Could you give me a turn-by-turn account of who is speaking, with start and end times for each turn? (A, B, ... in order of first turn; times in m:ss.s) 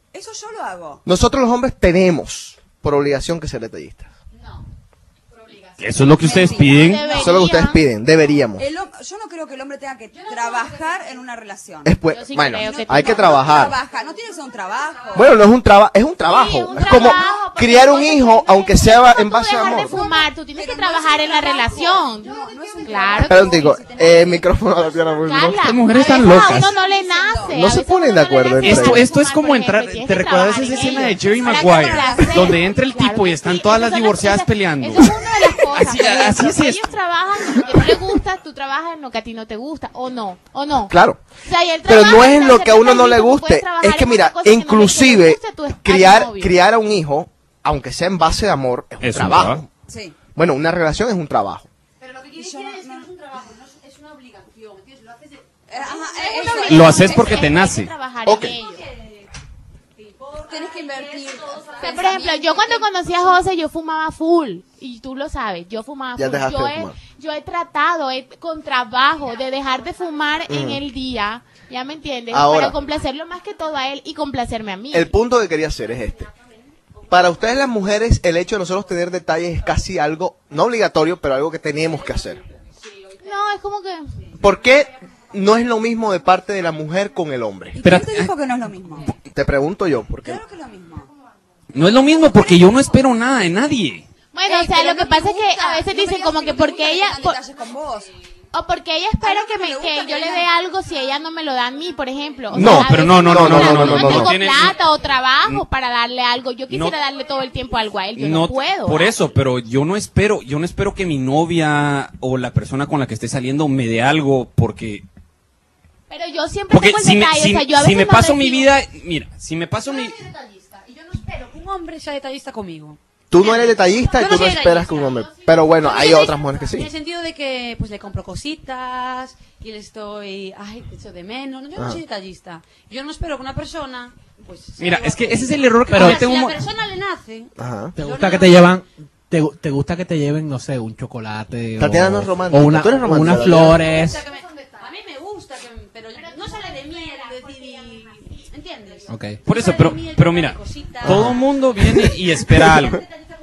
0:00.1-0:01.0 A
0:01.0-0:04.1 B
0:04.3-0:04.6 C
0:05.3-0:06.6 C
0:05.8-0:07.0 D
0:06.0-0:07.5 A
0:06.5-0:07.8 E
0:07.2-0:08.6 B
0:08.6-0:12.0 A
0:10.1-0:11.0 C
0:11.8-0:13.7 B
0:12.0-0:13.6 E
0:12.7-0:15.3 A
0:15.1-0:20.0 B
0:16.2-0:23.7 E
0:19.8-0:25.3 A
0:23.2-0:25.7 B
0:25.2-0:46.5 E
0:25.6-0:26.7 D
0:26.1-0:27.7 A
0:27.5-0:29.1 B
0:28.6-0:35.2 D
0:31.5-0:32.2 A
0:35.7-0:36.9 D
0:37.7-0:38.0 B
0:40.9-0:41.2 B
0:41.8-0:49.6 B
0:49.0-0:49.6 D
0:49.9-0:50.2 A
0:50.3-0:51.7 B
0:52.0-0:56.8 C
0:52.3-0:53.1 A
0:55.7-0:57.7 A
0:56.2-0:58.8 E
0:56.7-0:57.9 D
0:58.2-0:58.6 B
0:58.4-0:59.2 C
1:00.0-1:02.5 C
1:00.4-1:03.1 A
1:01.8-1:15.1 E
1:06.2-1:06.9 B
1:10.5-1:10.8 B
1:12.3-1:12.8 B
1:14.9-1:16.3 B
1:17.1-1:22.4 B
1:23.2-1:24.1 E
1:24.4-1:27.8 B
1:27.7-1:29.1 A
1:27.8-1:28.3 D
1:29.3-1:30.4 B
1:30.2-1:31.1 A
1:31.7-1:34.0 D
1:32.0-1:33.0 A
1:34.3-1:37.4 E
1:34.4-1:38.1 A
1:38.5-1:49.1 E
1:39.2-1:40.5 A
1:42.5-1:44.8 D
1:42.5-1:44.3 B
1:46.7-1:47.0 D
1:48.2-1:55.0 D
1:56.1-1:58.7 E
1:56.7-2:00.2 D
1:59.8-2:18.7 C
2:03.3-2:06.9 B
2:04.2-2:06.4 E
2:14.8-2:16.6 D
2:15.9-2:16.2 F
2:17.6-2:17.9 B
2:18.0-2:24.2 F
2:21.8-2:23.9 B
2:23.5-2:31.3 C
2:26.2-2:27.9 E
2:29.1-2:29.4 F
2:29.4-2:33.0 D
2:31.1-2:31.4 F